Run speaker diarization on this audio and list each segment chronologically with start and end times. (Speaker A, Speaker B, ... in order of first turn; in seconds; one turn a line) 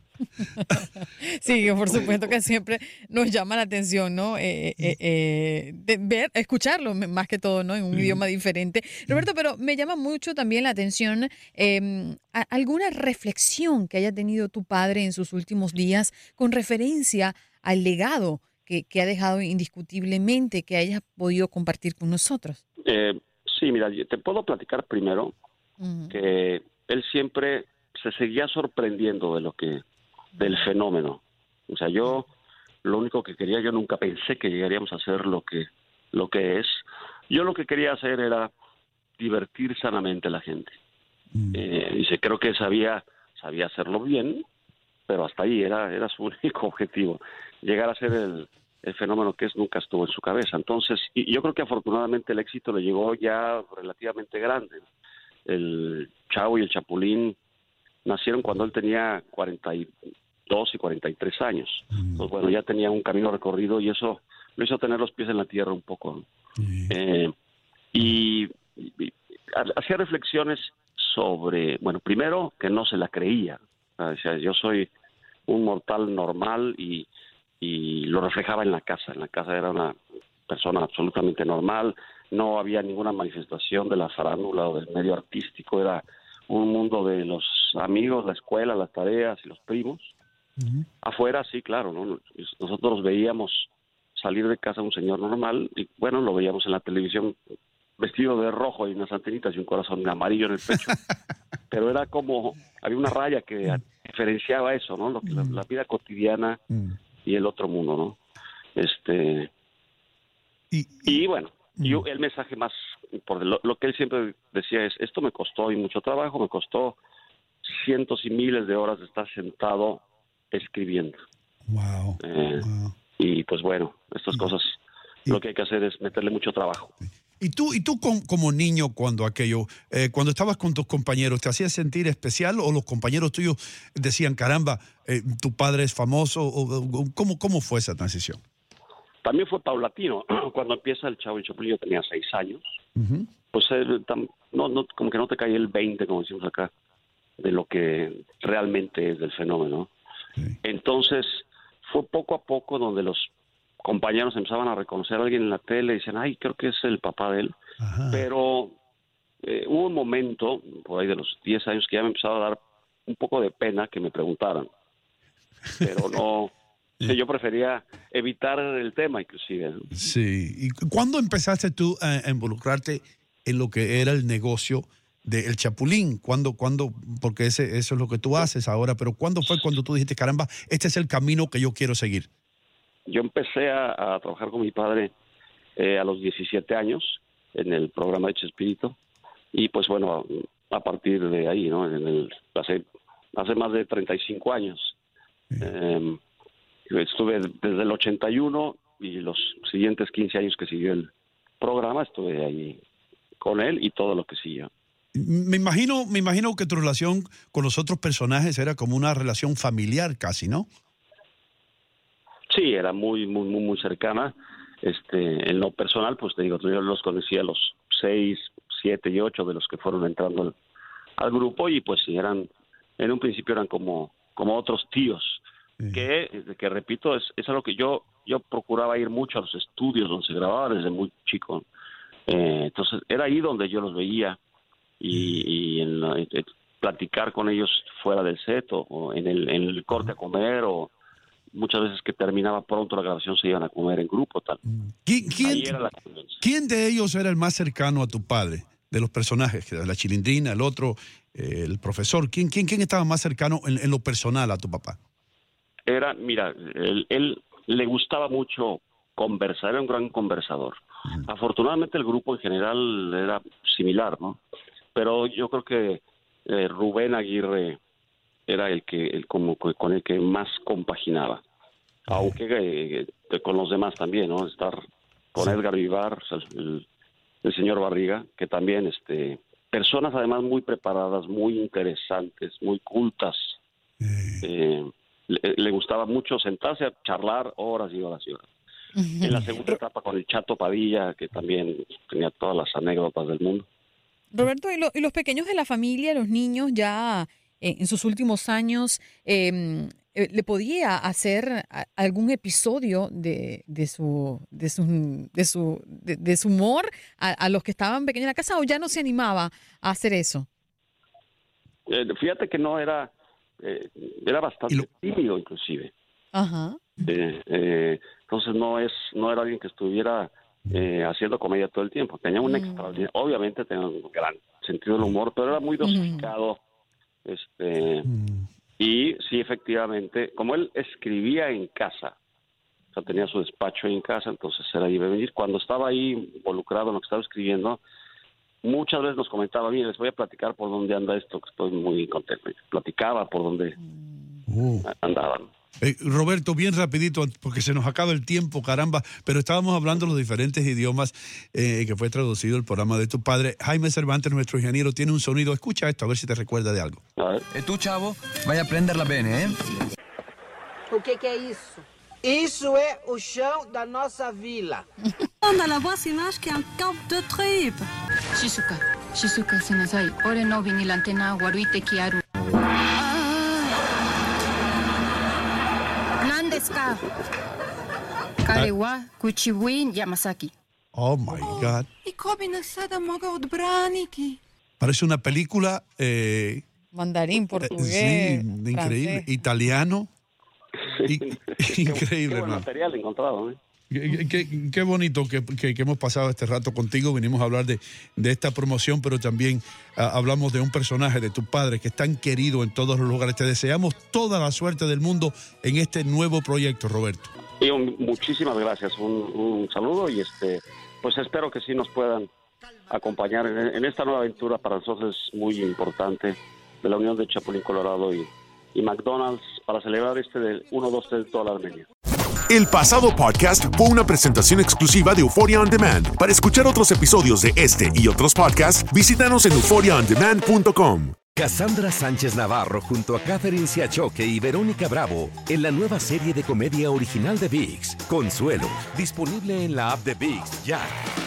Speaker A: 0.4-22.6
Speaker B: 1.6-2.3
Speaker C: 7.9-8.2
Speaker B: 22.8-25.3
Speaker A: 25.8-26.1
Speaker B: 26.1-29.8
Speaker B: 30.4-32.3
Speaker B: 32.8-38.5
Speaker B: 39.2-40.7
Speaker B: 41.5-44.4
Speaker B: 45.1-54.8
Speaker B: 55.5-57.4
Speaker B: 58.0-59.9
Speaker B: 60.5-66.3
Speaker C: 61.9-62.2
Speaker C: 66.6-66.9
Speaker B: 66.9-67.3
Speaker B: 67.9-74.9
Speaker B: 75.5-77.1
Speaker B: 77.6-80.0
Speaker B: 80.5-90.1
Speaker B: 91.0-97.3
Speaker B: 98.0-101.0
Speaker B: 101.7-106.6
Speaker C: 105.2-105.6
Speaker B: 107.2-108.2
Speaker B: 108.8-109.5
Speaker C: 110.7-111.2
Speaker B: 111.0-117.0
Speaker B: 117.6-121.2
Speaker C: 121.7-122.9
Speaker B: 122.2-122.7
Speaker B: 123.2-124.8
Speaker B: 125.3-126.9
Speaker C: 127.4-138.4
Speaker B: 139.2-142.6
Speaker C: 142.9-143.3
Speaker B: 143.5-146.7
Speaker B: 147.4-149.9
Speaker B: 150.6-153.3
Speaker B: 153.8-157.5
Speaker C: 157.8-158.2
Speaker B: 158.1-158.8
Speaker B: 159.4-164.7
Speaker B: 165.8-169.9
Speaker C: 169.9-182.3
Speaker B: 183.1-185.1
Speaker B: 185.8-188.9
Speaker B: 189.5-192.8
Speaker B: 193.3-194.9
Speaker B: 195.6-196.2
Speaker B: 196.9-202.8
Speaker B: 203.4-204.7
Speaker C: 205.1-210.7
Speaker B: 212.5-220.5
Speaker B: 221.2-231.7
Speaker B: 232.3-234.4
Speaker B: 235.0-240.9
Speaker C: 235.2-235.4
Speaker B: 241.5-244.6
Speaker C: 245.0-245.7
Speaker B: 245.4-246.3
Speaker C: 246.4-255.0
Speaker B: 255.8-264.4
Speaker B: 264.9-267.8
Speaker B: 268.5-271.4
Speaker B: 272.1-274.8
Speaker B: 275.3-276.8
Speaker B: 277.4-283.6
Speaker C: 284.0-284.4
Speaker B: 284.4-288.4
Speaker A: 288.9-289.3
Speaker B: 289.2-293.6
Speaker A: 294.3-310.5
Speaker B: 311.9-315.9
Speaker A: 316.3-316.8
Speaker B: 317.0-326.6
Speaker A: 322.6-322.8
Speaker A: 325.8-326.2
Speaker B: 327.2-328.1
Speaker C: 328.1-328.5
Speaker B: 328.8-332.1
Speaker B: 332.9-337.8
Speaker B: 338.6-343.8
Speaker C: 344.5-344.9
Speaker B: 344.8-345.5
Speaker C: 345.8-357.0
Speaker B: 357.2-357.4
Speaker D: 357.5-359.6
Speaker E: 360.9-364.8
Speaker F: 365.4-367.8
Speaker G: 368.3-372.2
Speaker G: 376.2-377.0
Speaker G: 378.4-380.5
Speaker C: 380.9-381.9
Speaker G: 381.6-384.4
Speaker C: 384.8-386.6
Speaker A: 386.9-389.2
Speaker C: 387.6-390.1
Speaker B: 391.0-393.6
Speaker C: 391.1-392.6
Speaker C: 393.9-407.3
Speaker B: 407.6-412.3
Speaker B: 412.9-421.9
Speaker H: 422.5-431.2
Speaker I: 431.3-440.9